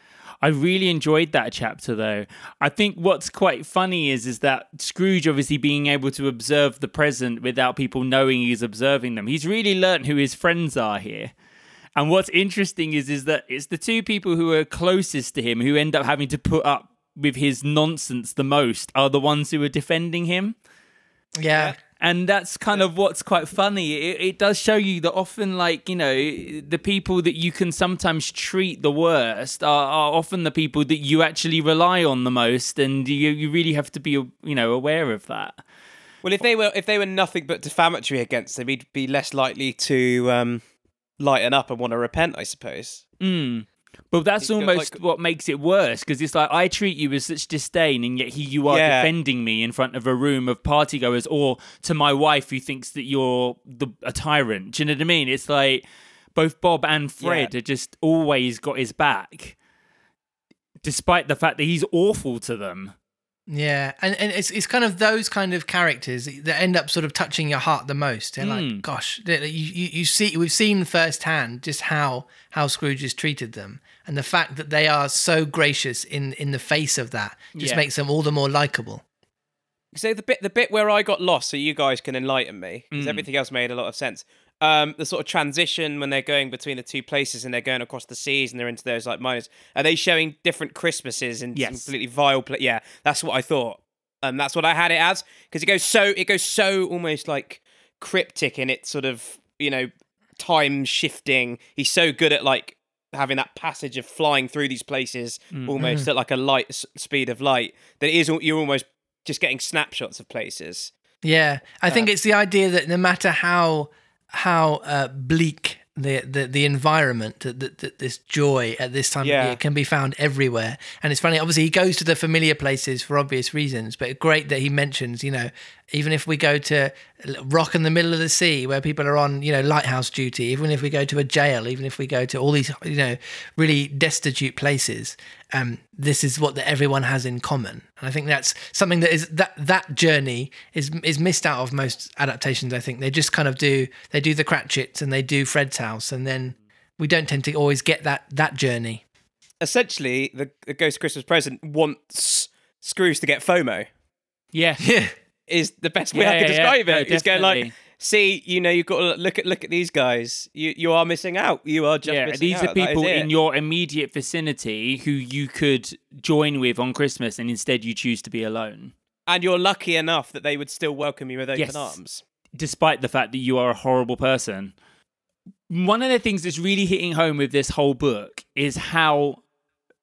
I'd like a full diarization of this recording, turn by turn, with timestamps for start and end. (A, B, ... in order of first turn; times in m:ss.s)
0:00.4-0:11.3 A
0:12.0-0:20.6 A
0:21.4-0:21.8 B
0:22.0-0:35.6 A
0:36.2-0:40.6 C
0:41.2-0:43.0 C
0:43.2-0:59.6 A
0:44.4-0:45.0 C
0:48.7-0:49.1 C
0:57.2-0:57.5 C
1:00.8-1:03.0 A
1:03.5-1:19.0 B
1:08.4-1:08.8 A
1:17.6-1:17.8 A
1:19.9-1:50.9 C
1:22.9-1:23.2 A
1:31.6-1:31.9 A
1:45.5-1:45.8 A
1:45.8-1:46.1 B
1:51.2-2:29.0 B
1:59.2-1:59.6 C
2:29.6-2:33.9 C
2:34.5-2:34.8 A
2:34.8-2:35.1 B
2:35.5-2:43.3 C
2:36.1-2:37.7 A
2:42.0-2:48.9 A
2:49.3-2:52.2 C
2:51.6-2:52.0 A
2:52.6-2:54.7 A
2:55.7-2:59.4 A